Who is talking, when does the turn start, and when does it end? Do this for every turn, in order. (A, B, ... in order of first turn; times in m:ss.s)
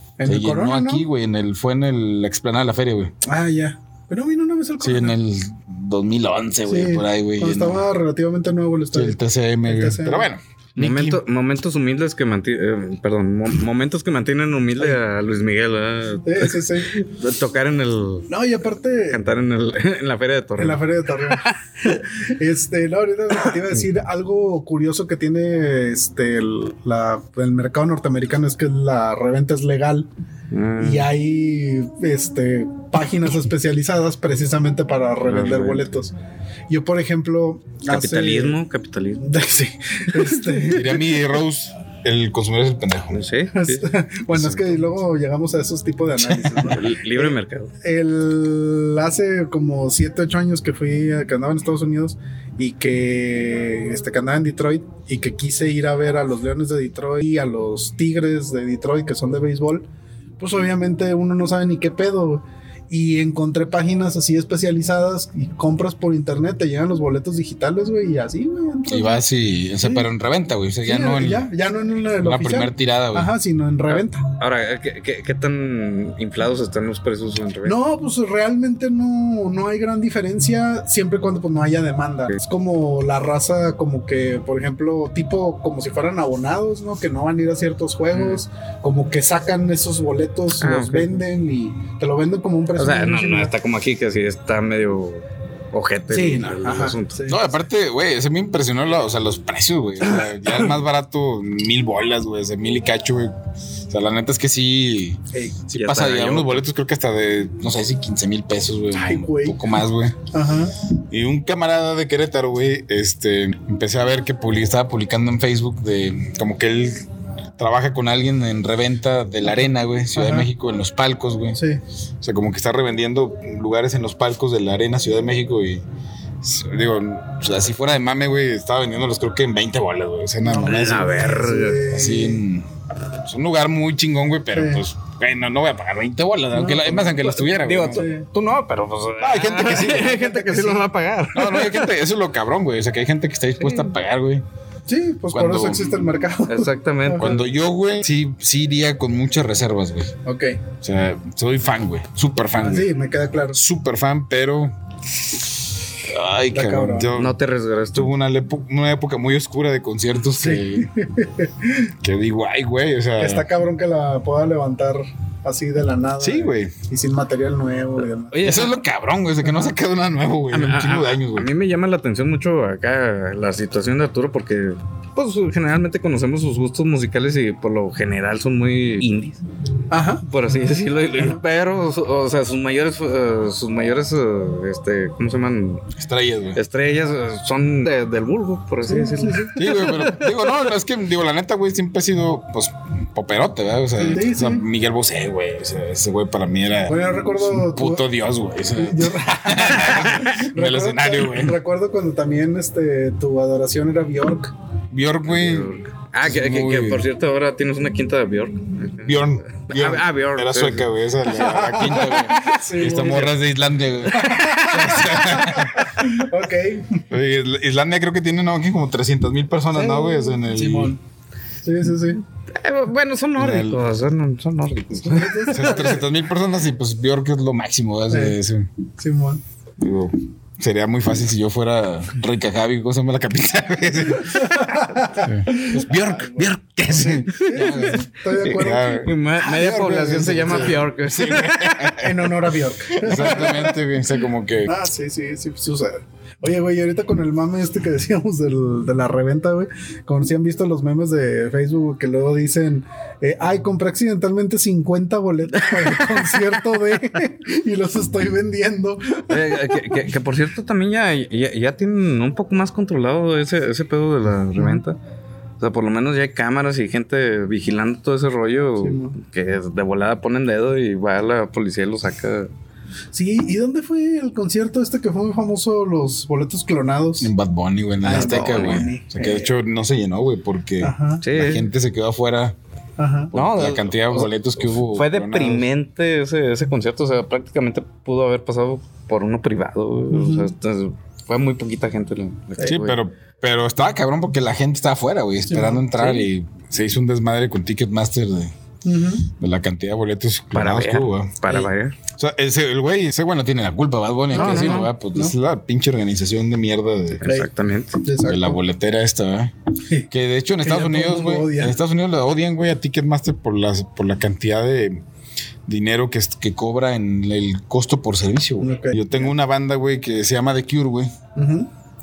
0:00.2-0:01.1 A
0:00.2-0:03.1 B
0:03.2-0:05.2 A
0:04.8-0:07.8 B
0:06.7-0:10.3 A
0:08.9-0:11.2 B
0:10.8-0:18.3 C
0:16.2-0:17.0 A
0:18.3-0:19.2 A
0:19.1-0:21.6 C
0:20.6-0:30.1 A
0:30.5-0:31.1 C
0:30.8-0:36.1 A
0:35.2-0:35.9 C
0:36.7-0:38.6 A
0:37.9-0:39.3 C
0:39.2-0:41.1 A
0:40.7-0:43.2 B
0:43.1-0:43.9 C
0:43.5-0:59.9 A
0:44.3-0:44.8 B
0:46.3-0:47.7 C
1:00.4-1:09.2 A
1:08.9-1:11.5 B
1:09.8-1:10.1 A
1:10.8-1:14.2 A
1:12.2-1:13.3 B
1:13.9-1:17.8 C
1:17.6-1:33.5 A
1:28.1-1:28.4 C
1:30.6-1:31.2 C
1:32.8-1:37.2 C
1:36.1-1:37.5 A
1:37.3-1:43.3 B
1:43.9-1:50.2 B
1:45.3-1:45.6 A
1:45.7-1:46.6 C
1:49.0-1:49.6 A
1:50.3-1:50.7 A
1:51.1-2:01.6 B
2:00.2-2:00.5 A
2:01.6-2:01.8 A
2:02.2-2:05.8 B
2:06.4-2:11.2 B
2:10.5-2:12.4 A
2:10.6-2:11.8 C
2:11.9-2:12.7 B
2:13.2-2:18.1 B
2:14.5-2:14.8 A
2:16.5-2:18.3 A
2:17.5-2:21.9 C
2:19.2-2:20.2 B
2:19.8-2:20.9 A
2:21.3-2:24.4 B
2:23.6-2:23.9 C
2:24.9-2:27.4 A
2:25.3-2:26.0 B
2:26.5-2:27.4 C
2:27.2-2:30.1 B
2:30.2-2:30.6 A
2:30.8-2:32.9 B
2:32.6-2:33.6 A
2:33.5-2:34.7 B
2:36.0-2:37.4 B
2:36.5-2:37.1 A
2:37.1-2:38.1 C
2:37.9-2:40.9 B
2:40.4-2:41.9 A
2:42.0-2:43.5 B
2:43.2-2:48.4 A
2:46.2-2:46.7 B
2:48.3-2:48.8 C
2:48.4-2:51.5 B
2:49.4-2:49.7 A
2:50.5-2:59.4 C
2:59.9-3:00.3 A
3:00.3-3:05.9 C
3:06.0-3:06.6 B
3:06.5-3:10.5 C
3:08.9-3:09.6 A
3:09.5-3:21.6 B
3:14.0-3:14.6 A
3:16.9-3:18.0 A
3:18.8-3:24.5 A
3:19.7-3:20.4 C
3:24.9-3:27.1 B
3:25.3-3:30.9 C
3:29.0-3:36.0 B
3:31.3-3:33.3 A
3:33.0-3:33.3 C
3:34.1-3:35.4 C
3:34.1-3:37.0 A
3:37.1-3:41.0 B
3:39.8-3:41.0 A
3:41.6-3:42.2 A
3:42.5-3:45.8 C
3:43.4-3:43.8 B
3:45.0-3:46.0 A
3:45.5-3:48.7 B
3:48.1-3:48.4 A
3:49.0-3:49.4 A
3:49.8-4:02.4 B
3:54.2-3:59.1 A
3:56.9-4:02.2 C
4:02.0-4:03.8 A
4:02.9-4:04.7 B
4:04.7-4:19.9 A
4:15.6-4:16.5 C
4:19.3-4:25.0 C
4:24.6-4:24.8 A
4:25.6-4:32.5 C
4:28.8-4:29.2 A
4:33.1-4:37.3 A
4:37.2-4:42.6 B
4:38.0-4:39.5 A
4:38.1-4:38.9 C
4:40.8-4:41.3 A
4:41.2-4:41.7 C
4:43.0-4:43.3 A
4:43.3-4:45.7 B
4:43.3-4:53.0 C
4:50.1-4:50.5 A
4:52.6-4:58.5 B
4:55.5-4:56.1 A
4:58.8-4:59.3 A
4:59.4-5:07.2 B
5:00.5-5:02.0 C
5:04.3-5:05.3 A
5:04.3-5:04.9 C
5:07.2-5:08.0 C
5:08.0-5:08.6 A
5:08.2-5:09.5 B
5:10.1-5:15.0 B
5:10.6-5:11.8 A
5:15.7-5:21.1 B
5:18.6-5:19.3 A
5:21.4-5:21.7 A